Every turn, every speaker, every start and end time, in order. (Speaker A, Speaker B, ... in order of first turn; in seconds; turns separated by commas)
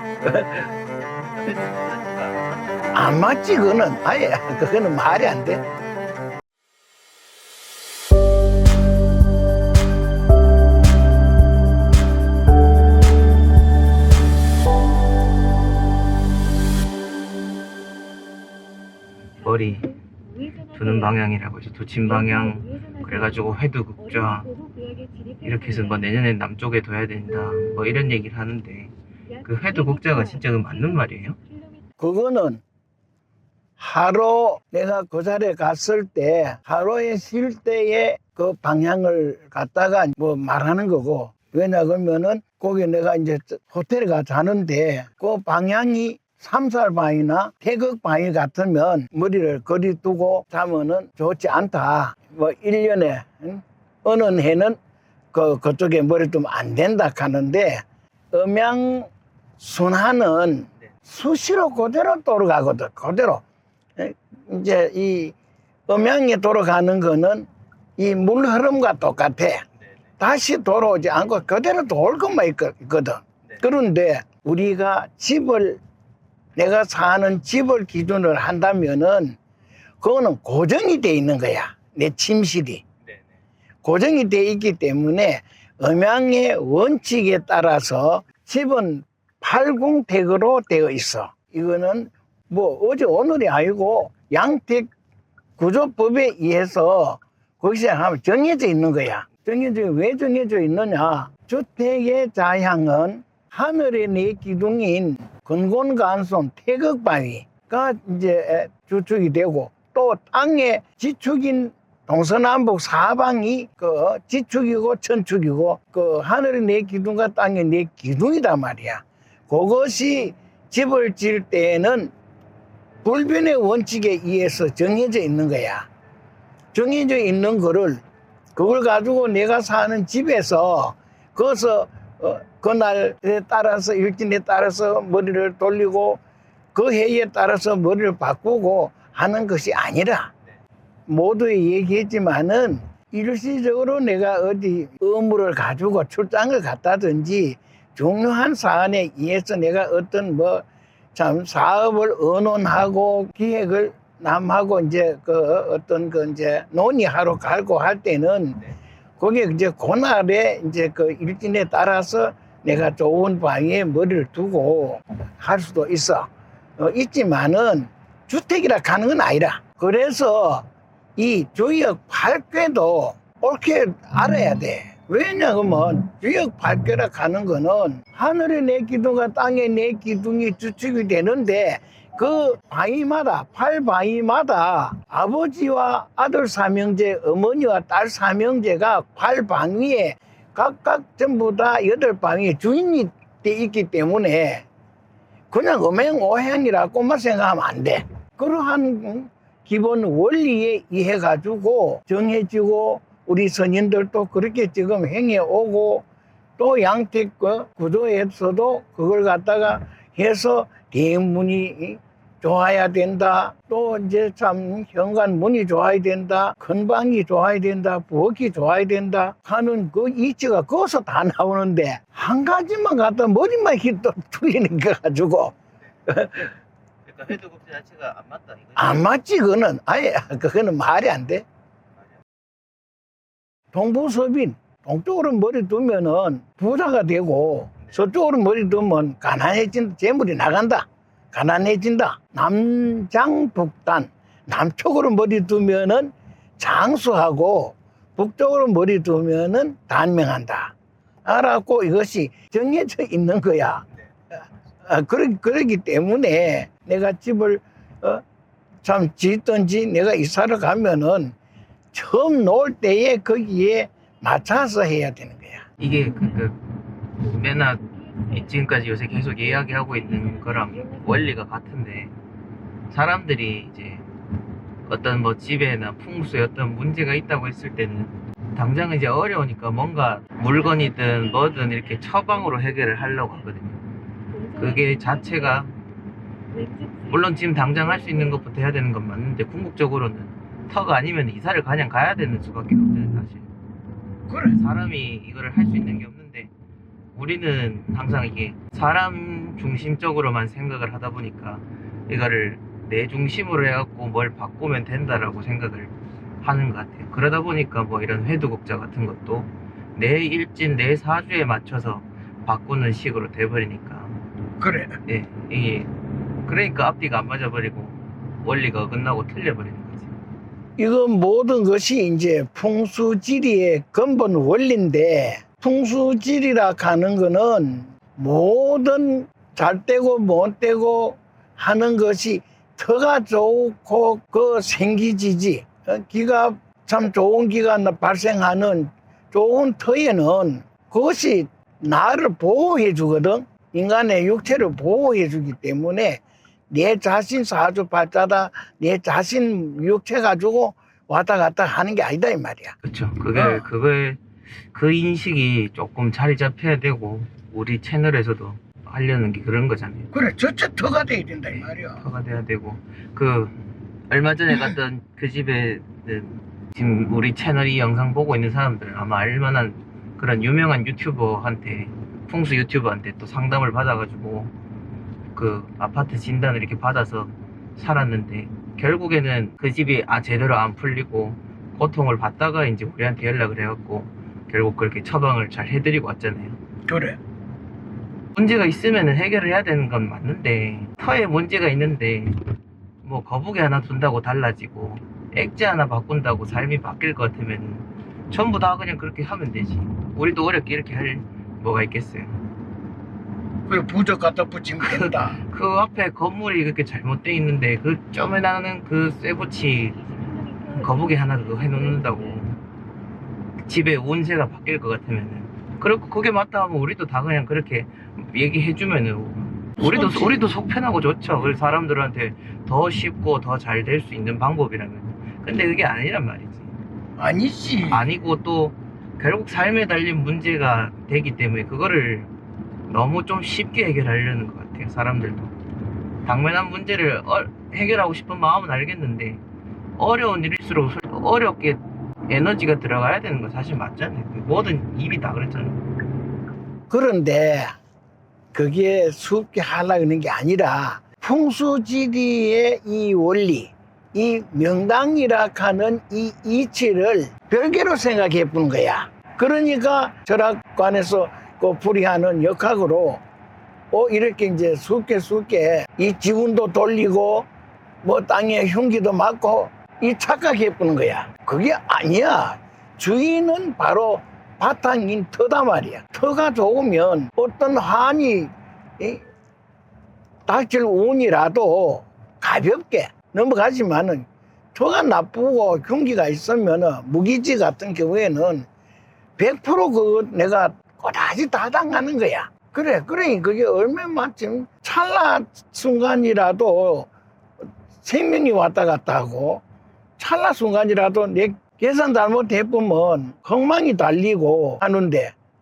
Speaker A: 0.2-0.7, Speaker B: 1.4-2.4, Speaker A: 3.0-5.6, Speaker B: 19.4-20.0, Speaker B: 20.7-24.6, Speaker B: 25.4-28.9, Speaker B: 29.4-31.4, Speaker A: 32.0-32.6, Speaker A: 33.8-54.8, Speaker A: 55.3-63.4, Speaker A: 64.0-65.3, Speaker A: 65.9-67.5, Speaker A: 68.0-69.7, Speaker A: 70.2-75.8, Speaker A: 76.5-79.4, Speaker A: 80.0-82.8, Speaker A: 83.8-94.9, Speaker A: 95.6-122.1, Speaker A: 123.0-125.8, Speaker A: 126.7-128.0, Speaker A: 128.6-136.2, Speaker A: 136.7-140.3, Speaker A: 141.1-166.3, Speaker A: 166.8-194.6, Speaker A: 195.5-206.1, Speaker A: 206.6-225.6, Speaker A: 226.1-226.5, Speaker B: 227.0-229.1, Speaker A: 228.8-231.4, Speaker A: 233.7-250.7, Speaker A: 251.2-253.8, Speaker A: 254.8-258.2, Speaker A: 258.8-261.3, Speaker A: 261.9-265.7, Speaker B: 265.8-266.6, Speaker B: 267.2-272.2, Speaker B: 272.9-274.1, Speaker B: 274.9-283.8, Speaker B: 284.5-285.7, Speaker B: 287.1-293.5, Speaker A: 294.3-294.6, Speaker B: 294.5-296.5, Speaker B: 297.1-314.2, Speaker A: 314.6-315.0, Speaker B: 315.1-315.9, Speaker B: 316.4-320.1, Speaker A: 320.8-346.2, Speaker A: 346.7-352.8, Speaker B: 352.8-354.2, Speaker A: 353.3-353.7, Speaker B: 354.7-360.1, Speaker A: 360.1-362.0, Speaker B: 361.5-363.5, Speaker B: 364.1-374.5, Speaker A: 364.5-364.8, Speaker B: 375.3-386.6, Speaker A: 386.9-387.2, Speaker B: 388.3-392.4, Speaker B: 393.0-402.4, Speaker A: 403.7-405.4, Speaker B: 404.8-410.1, Speaker B: 410.7-412.6, Speaker B: 413.6-426.7, Speaker A: 419.8-420.5, Speaker A: 427.2-428.1, Speaker B: 427.9-432.3, Speaker B: 432.9-435.5, Speaker B: 436.2-439.4, Speaker B: 440.0-445.9, Speaker A: 446.9-447.8, Speaker A: 448.5-463.2, Speaker A: 463.9-467.5, Speaker A: 468.0-479.2, Speaker A: 480.5-488.6, Speaker A: 489.4-497.1, Speaker A: 498.0-499.6, Speaker A: 500.2-505.3